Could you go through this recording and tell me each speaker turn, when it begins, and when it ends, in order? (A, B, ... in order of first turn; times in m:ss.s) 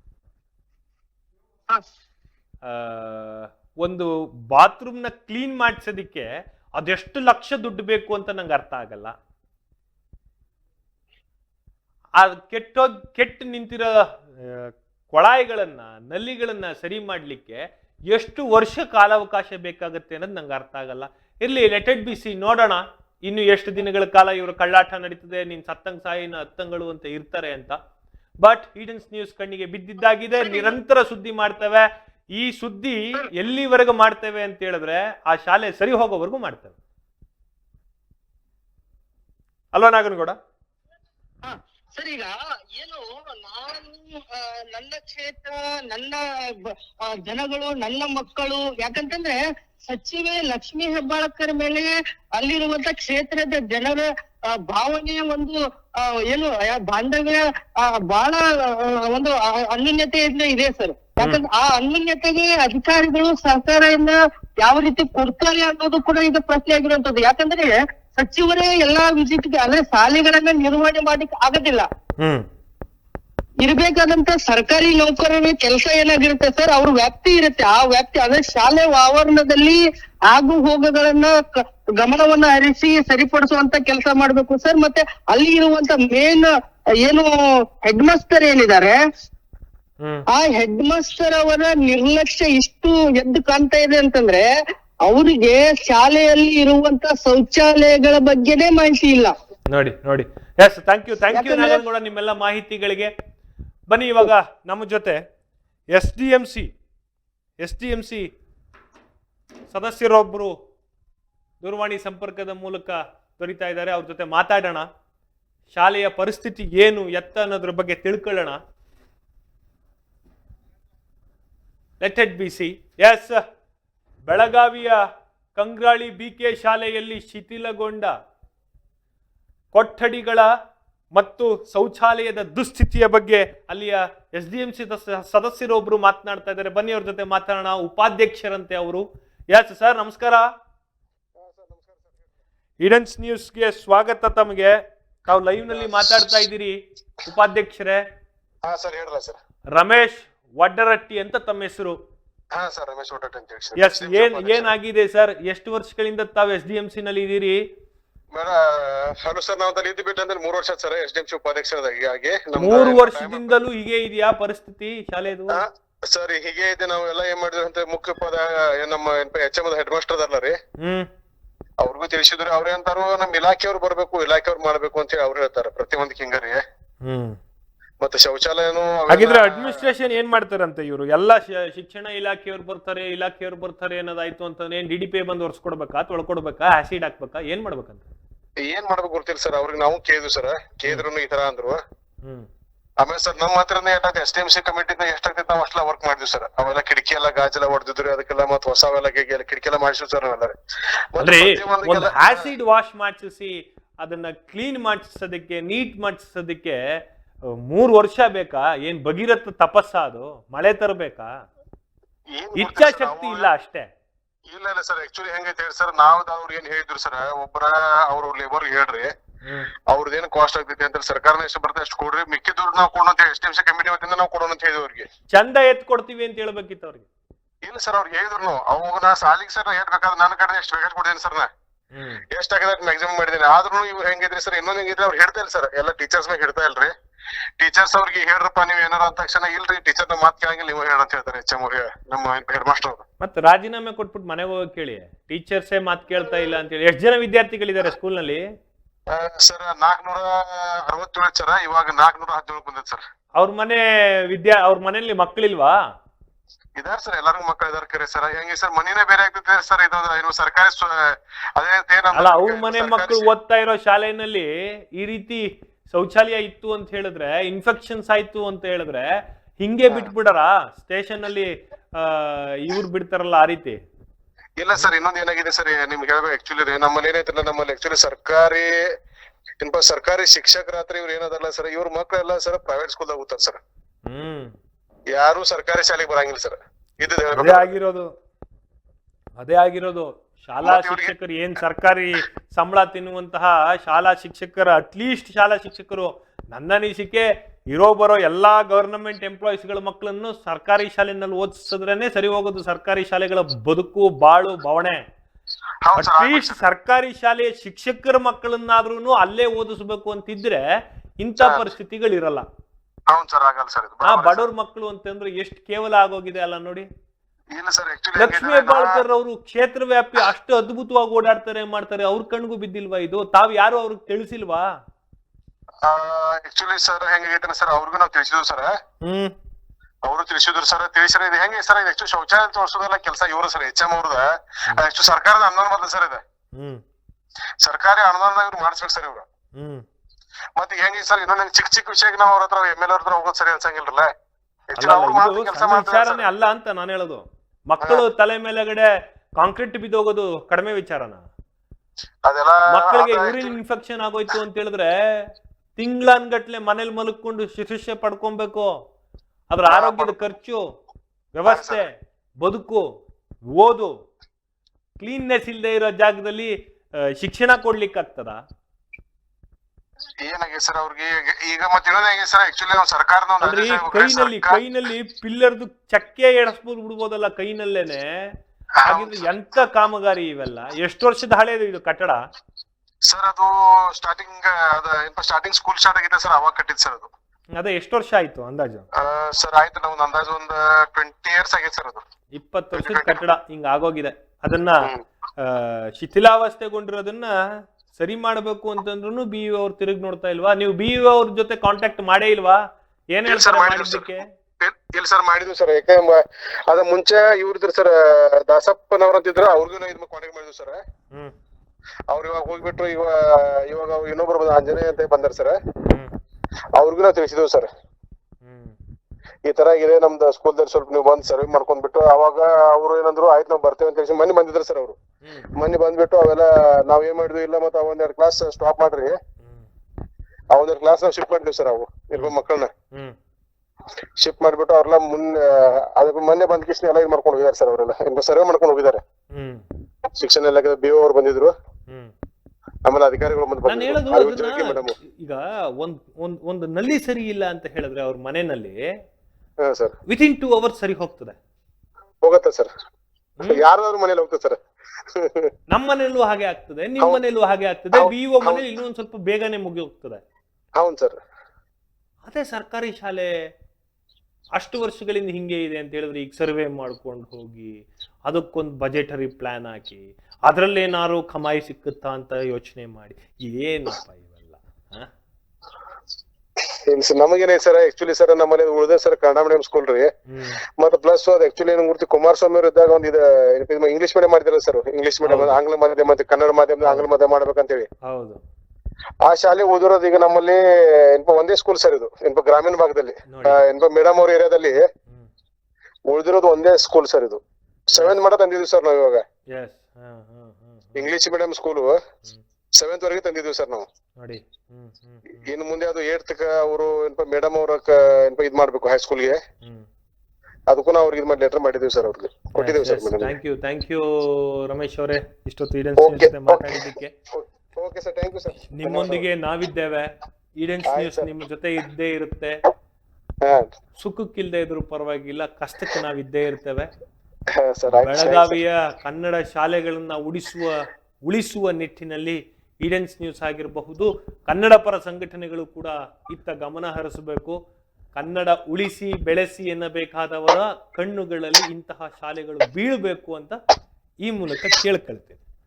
0:02.6-0:06.3 A
0:06.8-0:09.1 A
0:12.2-0:27.8 A
0:28.4-0:36.8 A
0:39.7-0:40.4 A
0:41.4-1:11.9 B
1:12.2-1:12.4 A
1:13.6-1:26.5 B
1:27.0-1:27.3 B
1:27.8-1:29.0 B
1:30.3-1:34.5 B
1:35.0-1:39.3 B
1:39.7-1:43.1 A
1:41.3-1:41.8 B
1:43.9-1:45.2 A
1:45.9-1:46.7 A
1:47.6-1:48.3 A
1:49.7-1:50.5 A
1:51.6-1:54.9 A
1:55.7-1:58.6 A
2:02.0-2:03.4 A
2:04.3-2:05.0 A
2:05.6-2:08.1 A
2:09.7-2:10.5 A
2:11.2-2:20.5 A
2:21.4-2:22.2 C
2:22.8-2:28.0 A
2:25.7-2:26.2 C
2:28.6-2:29.4 C
2:29.8-2:32.0 A
2:32.5-2:34.7 C
2:33.8-2:37.6 A
2:38.3-2:43.6 C
2:42.6-2:45.6 A
2:45.5-2:50.6 C
2:50.8-2:51.1 A
2:51.8-2:56.6 C
2:57.0-2:57.4 A
2:58.0-2:59.9 C
2:59.1-3:08.0 A
3:08.6-3:11.8 C
3:13.0-3:20.6 C
3:21.1-3:22.5 C
3:21.2-3:26.8 A
3:27.5-3:31.3 A
3:32.3-3:33.5 C
3:32.6-3:33.9 A
3:34.5-3:39.1 C
3:39.4-3:39.7 A
3:39.9-3:45.1 C
3:45.3-3:47.1 A
3:47.6-3:51.5 C
3:51.9-3:52.2 A
3:52.3-3:56.9 C
3:57.6-4:03.0 C
4:03.2-4:08.4 A
4:09.1-4:13.0 C
4:13.4-4:15.8 A
4:16.8-4:23.3 C
4:22.2-4:33.8 A
4:34.6-4:39.0 C
4:39.6-4:43.6 C
4:44.1-4:44.5 A
4:45.1-4:47.7 C
4:47.3-4:48.1 A
4:49.4-5:05.0 A
4:50.6-4:51.1 C
5:05.8-5:06.6 C
5:06.0-5:10.6 A
5:11.2-5:12.4 A
5:11.4-5:11.7 C
5:13.1-5:14.5 C
5:14.0-5:16.9 A
5:17.5-5:19.0 C
5:18.2-5:24.7 A
5:25.8-5:28.8 C
5:29.0-5:29.3 A
5:30.0-5:36.2 C
5:36.6-5:36.8 A
5:37.6-5:39.3 C
5:39.6-5:39.8 A
5:40.6-5:44.1 C
5:44.7-5:46.3 C
5:44.8-5:51.2 A
5:52.2-5:53.6 C
5:52.7-5:58.7 A
5:59.5-6:00.6 A
5:59.7-6:00.1 C
6:01.3-6:02.8 A
6:01.5-6:01.8 C
6:03.5-6:03.9 A
6:05.0-6:08.4 A
6:10.2-6:14.6 C
6:13.4-6:18.3 A
6:18.8-6:19.3 C
6:18.8-6:22.2 A
6:23.0-6:27.1 C
6:27.6-6:28.9 A
6:29.0-6:32.0 C
6:32.4-6:34.9 A
6:32.8-6:33.2 C
6:35.4-6:37.3 A
6:37.9-6:42.6 A
6:43.1-6:44.3 A
6:43.3-6:50.8 C
6:52.1-6:55.6 C
6:55.9-6:56.1 A
6:56.8-6:57.7 C
6:58.4-6:58.8 A
6:59.4-7:05.0 C
7:05.2-7:05.5 A
7:05.6-7:09.2 C
7:10.5-7:12.7 C
7:14.2-7:19.0 C
7:19.3-7:19.6 A
7:20.2-7:21.5 C
7:22.8-7:25.0 C
7:23.7-7:28.8 A
7:29.6-7:30.0 C
7:30.1-7:31.4 A
7:32.2-7:32.7 C
7:33.5-7:35.5 C
7:35.7-7:40.2 A
7:37.9-7:38.6 C
7:40.8-7:41.2 C
7:42.3-7:43.3 A
7:44.6-7:55.1 A
7:56.9-8:00.1 C
8:00.3-8:00.6 A
8:00.6-8:07.9 C
8:05.2-8:05.6 A
8:06.8-8:07.1 A
8:08.0-8:08.4 A
8:09.2-8:14.9 C
8:13.3-8:13.6 A
8:16.1-8:19.2 C
8:19.5-8:21.1 A
8:21.0-8:22.0 C
8:22.8-8:23.9 C
8:24.2-8:25.4 A
8:25.4-8:29.4 C
8:30.7-8:33.3 C
8:32.6-8:37.1 A
8:36.0-8:39.2 C
8:38.7-8:42.6 A
8:40.9-8:41.3 C
8:43.4-8:43.8 C
8:44.0-8:46.9 A
8:47.5-8:48.6 C
8:47.9-8:57.6 A
8:58.2-9:03.6 A
9:04.2-9:05.4 A